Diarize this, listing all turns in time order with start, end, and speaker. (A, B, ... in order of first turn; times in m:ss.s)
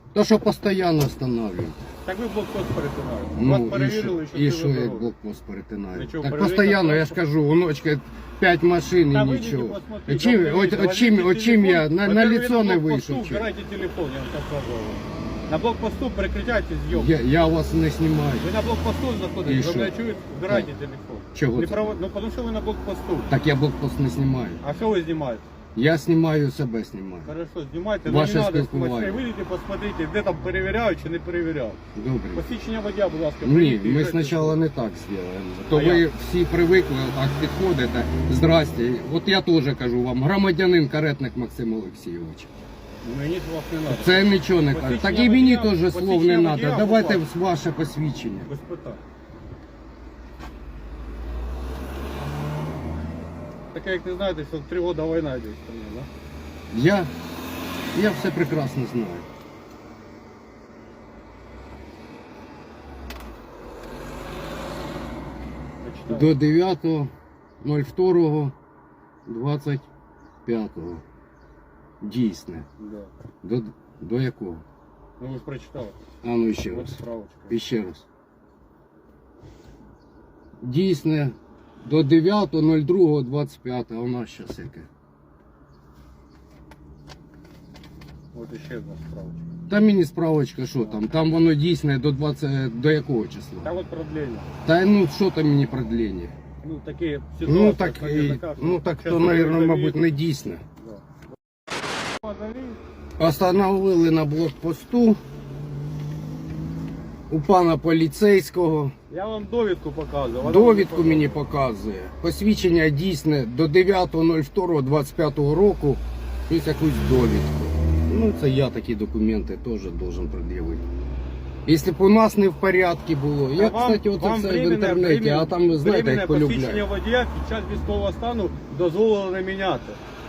0:00.1-0:01.8 A
0:02.0-0:05.1 B
0:03.4-0:13.5 A
0:05.9-0:07.2 B
0:09.1-0:17.1 B
0:16.9-0:18.5 A
0:18.4-0:23.3 B
0:19.4-0:19.9 A
0:21.3-0:22.0 A
0:23.3-0:24.6 A
0:24.6-0:25.5 B
0:25.7-0:27.3 A
0:27.2-0:31.8 B
0:28.0-0:29.3 A
0:31.9-0:32.5 A
0:32.3-0:34.6 B
0:33.4-0:42.5 A
0:35.7-0:36.1 B
0:43.0-0:47.2 B
0:43.9-0:48.5 A
0:48.4-0:49.0 B
0:53.7-0:56.1 B
0:56.7-0:57.1 A
0:57.9-0:59.3 A
1:05.8-1:06.4 B
1:06.1-1:08.5 A
1:09.2-1:09.8 A
1:10.4-1:11.0 A
1:12.0-1:12.7 A
1:12.8-1:13.1 B
1:13.4-1:14.6 A
1:15.2-1:16.0 B
1:16.2-1:17.0 A
1:16.7-1:17.5 B
1:17.5-1:18.0 A
1:20.6-1:24.9 A
1:28.3-1:29.4 B
1:29.7-1:33.7 A
1:33.6-1:34.5 B
1:34.6-1:36.3 A
1:36.6-1:40.0 B
1:37.4-1:40.6 A
1:40.8-1:41.0 B
1:42.2-1:42.8 B
1:43.2-1:45.2 A
1:47.3-1:48.9 A
1:49.1-1:51.4 B
1:50.4-2:00.8 A
2:01.6-2:06.9 A
2:03.6-2:10.0 B